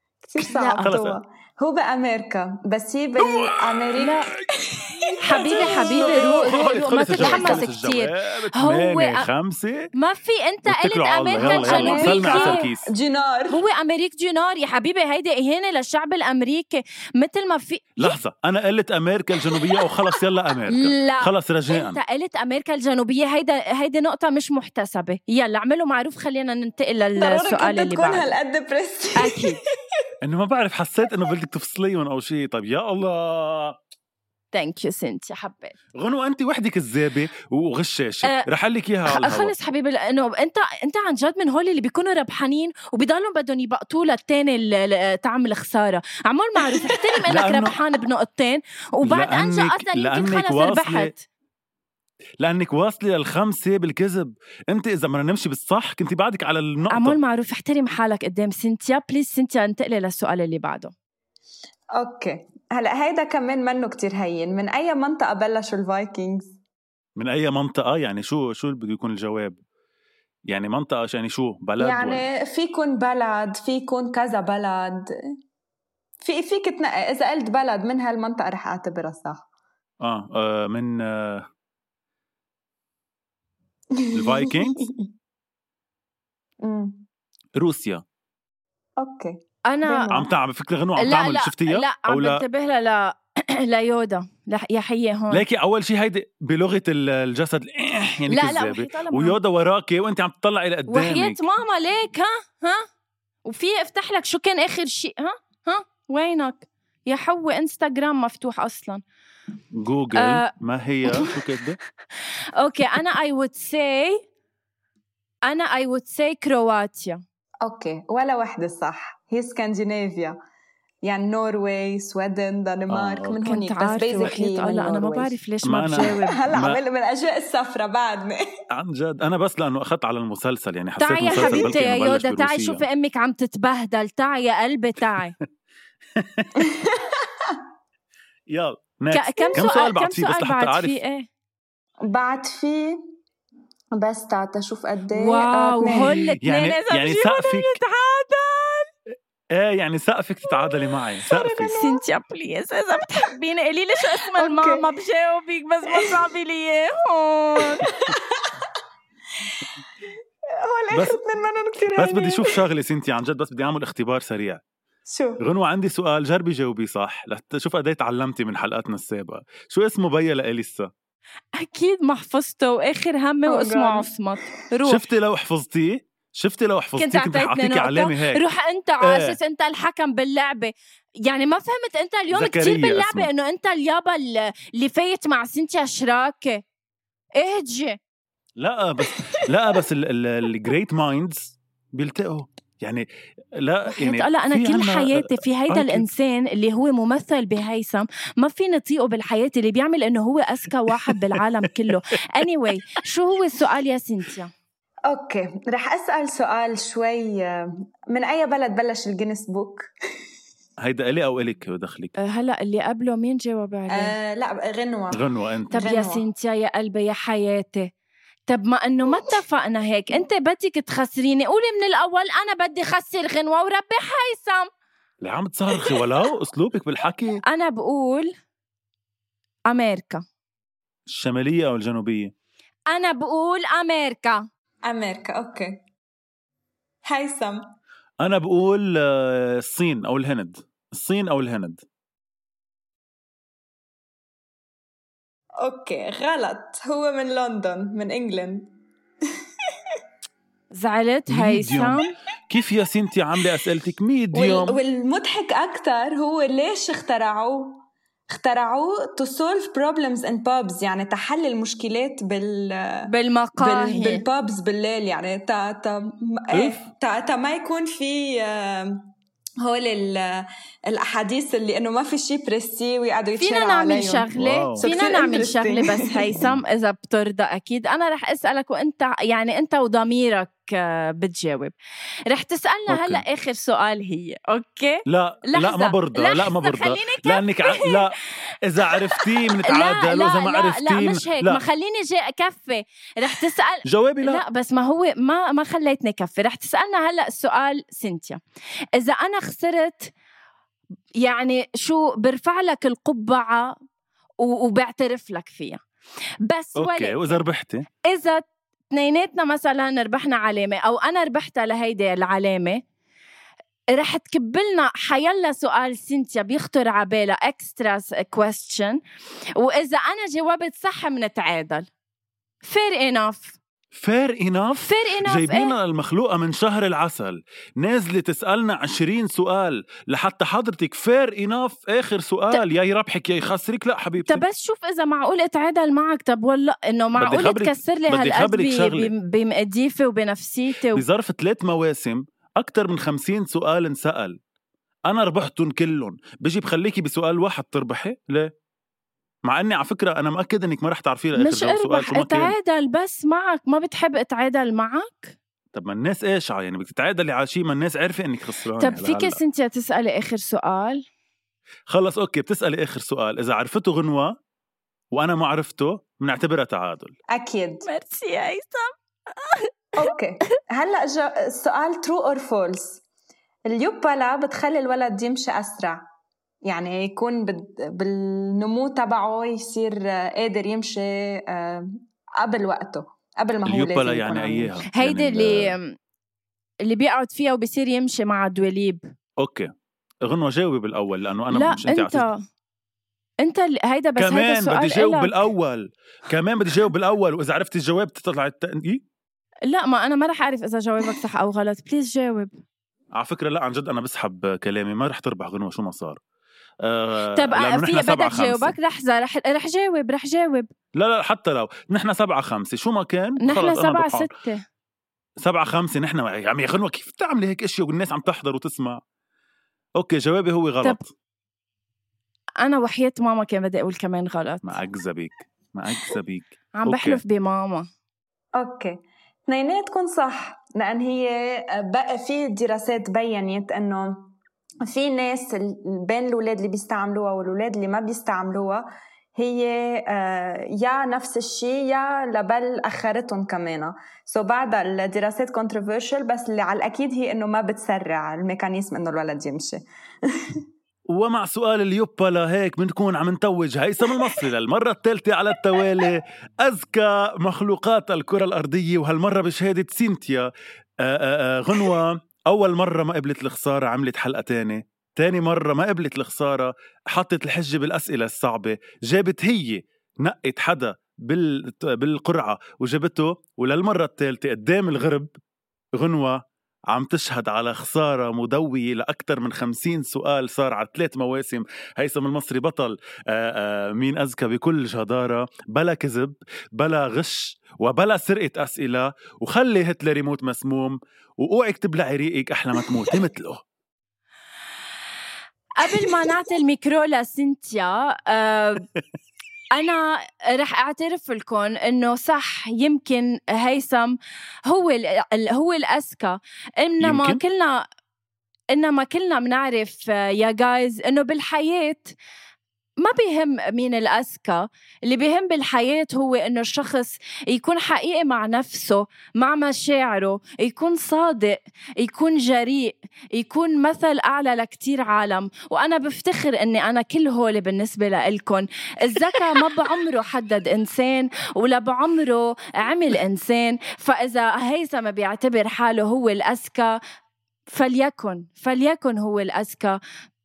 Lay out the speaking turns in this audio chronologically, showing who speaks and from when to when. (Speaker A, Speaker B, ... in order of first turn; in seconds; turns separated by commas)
Speaker A: 0.2-7.7, Speaker B: 0.4-0.9, Speaker C: 0.8-1.2, Speaker C: 3.2-4.1, Speaker B: 4.0-4.3, Speaker C: 4.9-9.9, Speaker B: 5.2-9.3, Speaker B: 9.9-12.6, Speaker C: 10.6-12.9, Speaker A: 11.4-13.6, Speaker B: 13.5-18.1, Speaker C: 18.0-22.0, Speaker A: 19.6-19.8, Speaker B: 20.7-28.3, Speaker A: 27.2-29.6, Speaker B: 29.1-29.6, Speaker C: 30.2-33.8, Speaker B: 34.5-35.8, Speaker C: 35.9-39.5, Speaker B: 39.0-51.2, Speaker C: 47.2-47.8, Speaker C: 49.0-51.1, Speaker C: 52.4-57.2, Speaker B: 56.9-60.9, Speaker A: 61.9-66.5, Speaker C: 67.2-69.6, Speaker C: 70.5-72.2, Speaker A: 71.8-75.1, Speaker A: 76.2-79.5, Speaker C: 80.0-81.5, Speaker A: 83.9-85.1, Speaker C: 84.1-84.9, Speaker A: 86.6-87.0, Speaker C: 87.6-88.0, Speaker A: 89.0-90.3, Speaker B: 89.7-90.1, Speaker C: 90.1-92.4, Speaker B: 91.0-95.4, Speaker C: 95.3-101.4, Speaker B: 98.3-99.4, Speaker B: 100.9-102.9, Speaker B: 103.5-109.0, Speaker C: 109.7-111.8, Speaker B: 110.1-110.5, Speaker B: 112.6-114.2, Speaker B: 115.5-117.2, Speaker A: 117.6-120.4, Speaker A: 121.0-125.3, Speaker C: 122.9-123.4, Speaker B: 123.5-126.4, Speaker C: 125.6-126.8, Speaker A: 126.0-128.4, Speaker C: 128.7-132.8, Speaker B: 131.0-135.3, Speaker A: 131.2-131.8, Speaker C: 136.1-136.7, Speaker A: 136.6-137.6, Speaker C: 138.5-141.0, Speaker B: 139.1-141.3, Speaker A: 142.1-143.0, Speaker A: 143.9-146.3, Speaker B: 145.1-148.9, Speaker C: 145.8-147.8, Speaker C: 149.5-151.7, Speaker A: 151.2-152.0, Speaker B: 151.7-157.9, Speaker A: 154.3-154.8, Speaker A: 155.9-156.2, Speaker A: 157.8-158.6, Speaker A: 159.4-159.7, Speaker A: 160.6-162.6, Speaker C: 160.9-161.2, Speaker C: 161.9-164.6, Speaker A: 165.1-165.4, Speaker C: 165.4-170.9, Speaker B: 171.6-175.0, Speaker A: 173.4-174.5, Speaker C: 174.8-178.4, Speaker B: 177.0-186.6, Speaker C: 179.0-179.4, Speaker C: 182.3-183.3, Speaker B: 187.4-188.0, Speaker C: 188.6-196.1, Speaker A: 189.0-189.8, Speaker B: 193.9-204.5, Speaker C: 201.1-201.4, Speaker A: 205.1-209.9, Speaker C: 210.8-212.1, Speaker B: 212.2-214.1, Speaker A: 213.9-216.2, Speaker C: 215.1-215.8, Speaker B: 215.7-217.9, Speaker B: 218.5-224.7, Speaker C: 225.2-227.4, Speaker B: 227.5-228.3, Speaker B: 229.7-230.2, Speaker C: 231.1-232.3, Speaker B: 232.9-234.4, Speaker A: 234.8-235.8, Speaker A: 237.0-237.6, Speaker C: 238.2-241.8, Speaker A: 245.6-248.7, Speaker B: 250.7-252.1, Speaker C: 251.3-254.8, Speaker A: 254.3-269.1, Speaker B: 263.1-264.2, Speaker C: 266.5-266.8, Speaker A: 269.6-274.3, Speaker B: 273.4-281.7, Speaker C: 274.4-274.9, Speaker A: 274.8-276.3, Speaker B: 282.3-288.0, Speaker C: 282.9-283.2, Speaker C: 285.1-291.6, Speaker B: 288.9-298.4, Speaker C: 293.8-294.4, Speaker B: 298.9-300.1, Speaker B: 301.2-303.7, Speaker B: 304.4-305.8, Speaker B: 306.4-307.4, Speaker C: 306.8-307.8, Speaker B: 308.0-312.8, Speaker B: 313.9-319.0, Speaker B: 319.6-321.9, Speaker B: 322.6-323.6, Speaker C: 323.9-334.4, Speaker B: 324.8-325.8, Speaker B: 334.2-341.0, Speaker C: 337.1-339.1, Speaker C: 340.9-344.4, Speaker C: 345.1-348.5, Speaker C: 349.4-352.6, Speaker B: 351.3-355.4, Speaker C: 355.7-359.4, Speaker B: 358.8-361.0, Speaker C: 361.9-364.4, Speaker C: 365.1-367.1, Speaker A: 367.3-367.9, Speaker B: 367.8-370.1, Speaker A: 370.0-373.0, Speaker A: 373.7-376.0, Speaker A: 376.6-384.8, Speaker C: 383.6-385.8, Speaker B: 384.9-385.9, Speaker B: 386.9-389.1, Speaker C: 389.4-389.7, Speaker C: 390.2-392.3, Speaker B: 391.5-392.4, Speaker B: 393.4-395.4, Speaker C: 394.2-399.0, Speaker B: 399.7-402.5, Speaker C: 403.1-406.2, Speaker C: 406.8-408.7, Speaker B: 407.3-410.7, Speaker C: 410.9-414.3, Speaker B: 413.4-414.6, Speaker C: 415.4-419.0, Speaker C: 420.0-421.1, Speaker B: 422.6-424.8, Speaker C: 424.6-427.2, Speaker B: 426.8-427.9, Speaker A: 428.6-434.3, Speaker A: 434.8-438.8, Speaker A: 439.4-450.6, Speaker C: 451.1-475.3, Speaker A: 454.1-454.4, Speaker C: 475.9-493.6, Speaker B: 495.8-498.9, Speaker A: 495.9-496.2, Speaker B: 499.7-507.9, Speaker C: 507.0-507.4, Speaker B: 508.7-512.1, Speaker B: 513.0-537.0, Speaker B: 537.7-540.0